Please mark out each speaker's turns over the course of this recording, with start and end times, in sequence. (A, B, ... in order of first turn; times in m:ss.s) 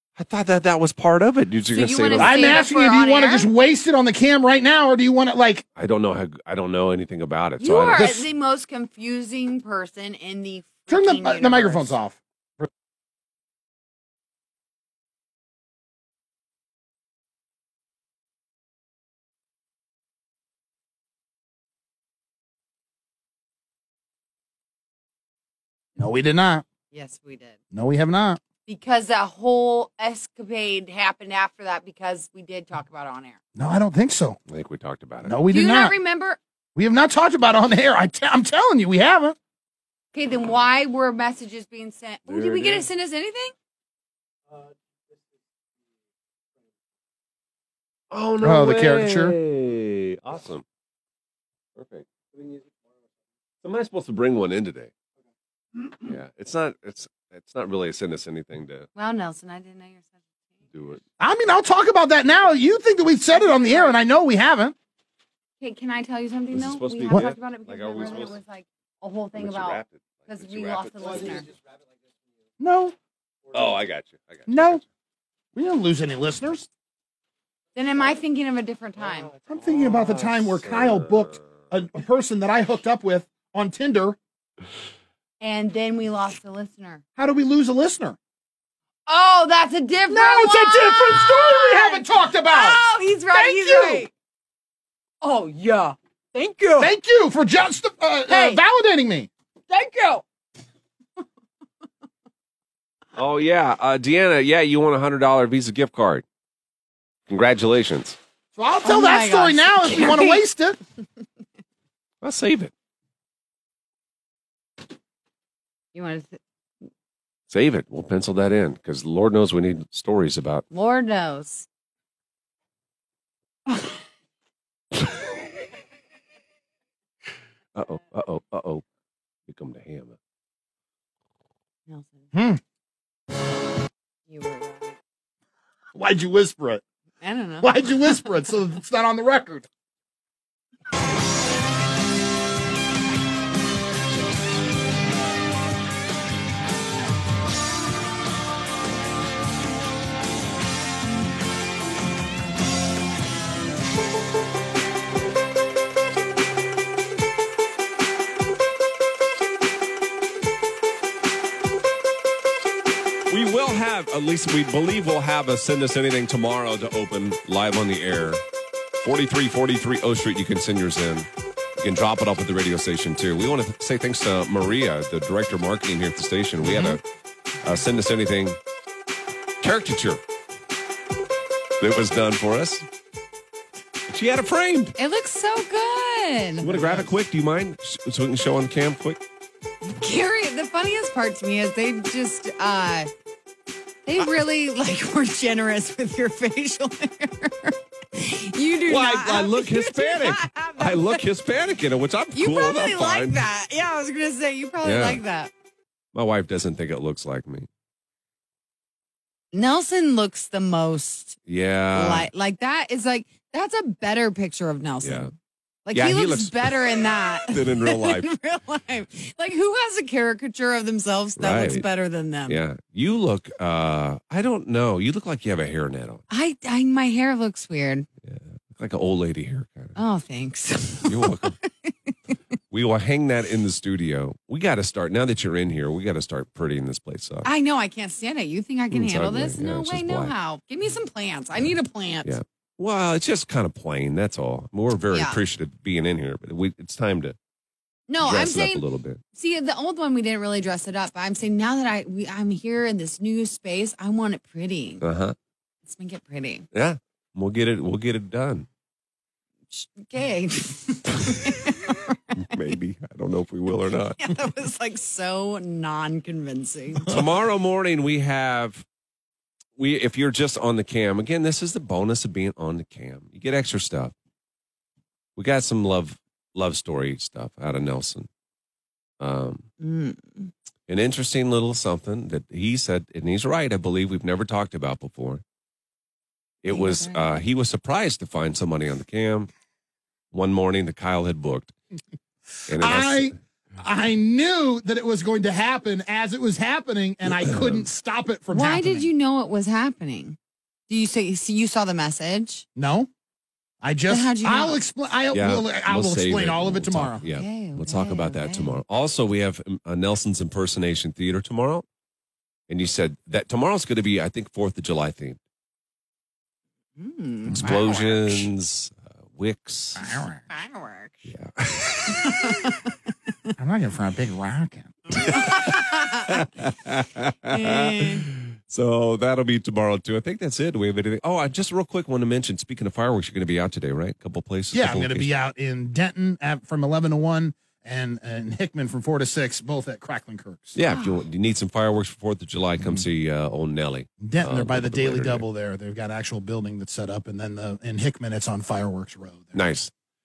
0:00.2-0:02.6 A
0:01.7-0:03.5 B
0:02.1-0:05.6 C
0:05.8-0:08.0 A
0:07.6-0:11.9 B
0:08.0-0:08.2 C
0:10.9-0:12.7 C
0:26.0-0:26.6 C
0:26.9-0:27.6 B
0:27.7-0:28.4 C
0:28.7-0:33.4 B
0:33.5-0:34.4 C
0:34.5-0:35.4 A
0:35.2-0:36.0 C
0:35.5-0:36.4 B
0:36.8-0:39.4 C
0:40.1-0:43.5 B
0:42.3-0:42.8 A
0:48.1-0:50.6 A
0:48.4-0:49.4 C
0:51.8-0:52.6 A
0:53.6-0:54.9 A
0:56.0-0:58.9 A
0:59.0-1:00.2 B
1:00.7-1:01.0 A
1:01.2-1:04.7 C
1:03.3-1:04.0 B
1:05.6-1:11.5 B
1:06.5-1:08.4 A
1:09.3-1:11.5 A
1:12.6-1:13.0 C
1:13.5-1:14.8 A
1:14.5-1:14.8 C
1:15.5-1:16.7 C
1:17.7-1:19.3 B
1:19.0-1:21.5 A
1:19.5-1:24.2 C
1:25.4-1:27.0 B
1:27.2-1:28.2 C
1:29.1-1:34.1 B
1:30.1-1:34.1 C
1:35.2-1:36.9 B
1:36.8-1:39.3 C
1:38.3-1:38.6 B
1:39.7-1:40.2 B
1:43.1-1:46.2 A
1:47.3-1:48.2 A
1:48.6-1:50.8 C
1:48.8-1:50.4 B
1:52.2-1:52.7 A
1:55.9-1:56.4 B
1:57.5-2:00.6 A
2:00.7-2:01.7 B
2:07.7-2:08.8 A
2:09.5-2:10.2 A
2:11.9-2:12.3 B
2:12.3-2:12.6 C
2:14.3-2:15.0 B
2:15.9-2:16.8 C
2:17.2-2:18.4 B
2:17.6-2:19.7 C
2:43.3-2:48.4 A
2:49.0-2:57.0 A
2:56.6-2:57.0 C
2:57.6-2:58.6 A
2:59.6-3:00.2 A
3:01.8-3:02.8 A
3:04.1-3:04.9 A
3:05.0-3:07.0 B
3:06.6-3:09.2 A
3:06.7-3:07.0 C
3:09.8-3:13.1 B
3:14.0-3:21.2 B
3:18.9-3:23.4 A
3:22.3-3:25.5 B
3:24.8-3:25.2 A
3:26.1-3:27.7 A
3:29.5-3:31.4 B
3:31.5-3:32.3 A
3:31.9-3:35.3 B
3:35.0-3:35.3 A
3:35.8-3:42.6 B
3:35.9-3:38.3 A
3:41.4-3:41.8 A
3:42.5-3:46.2 A
3:46.3-3:48.1 B
3:48.2-3:50.0 A
3:50.0-3:52.4 B
3:51.0-3:51.5 A
3:52.7-3:57.5 A
3:57.4-4:02.3 B
3:58.9-4:00.3 A
4:02.2-4:07.4 A
4:05.1-4:05.4 B
4:08.1-4:15.0 B
4:08.2-4:09.2 A
4:15.0-4:15.4 A
4:15.8-4:16.6 B
4:16.7-4:18.7 A
4:19.7-4:22.2 B
4:22.4-4:24.2 A
4:24.2-4:27.2 B
4:27.0-4:28.8 A
4:29.8-4:34.1 A
4:35.4-4:38.3 A
4:39.2-4:39.7 A
4:39.8-4:40.5 B
4:40.9-4:45.4 A
4:46.6-4:49.5 A
4:46.7-4:47.2 B
4:50.3-4:51.7 A
4:52.7-4:53.3 A
4:52.7-4:59.1 C
4:57.3-4:57.9 A
4:58.5-5:00.4 B
5:00.9-5:02.6 B
5:02.8-5:03.1 C
5:03.8-5:07.2 C
5:04.1-5:04.8 B
5:05.3-5:11.8 A
5:07.2-5:08.8 B
5:12.7-5:15.4 A
5:17.0-5:18.5 B
5:17.5-5:17.8 C
5:17.6-5:20.0 A
5:20.0-5:20.4 C
5:20.5-5:21.3 B
5:21.3-5:22.6 A
5:22.1-5:23.5 B
5:23.6-5:25.2 C
5:25.2-5:25.7 A
5:25.2-5:26.4 B
5:26.2-5:35.3 A
5:27.5-5:28.2 B
5:34.7-5:40.8 C
5:40.8-5:45.4 A
5:40.9-5:41.2 B
5:44.2-5:49.7 C
5:49.5-5:49.9 A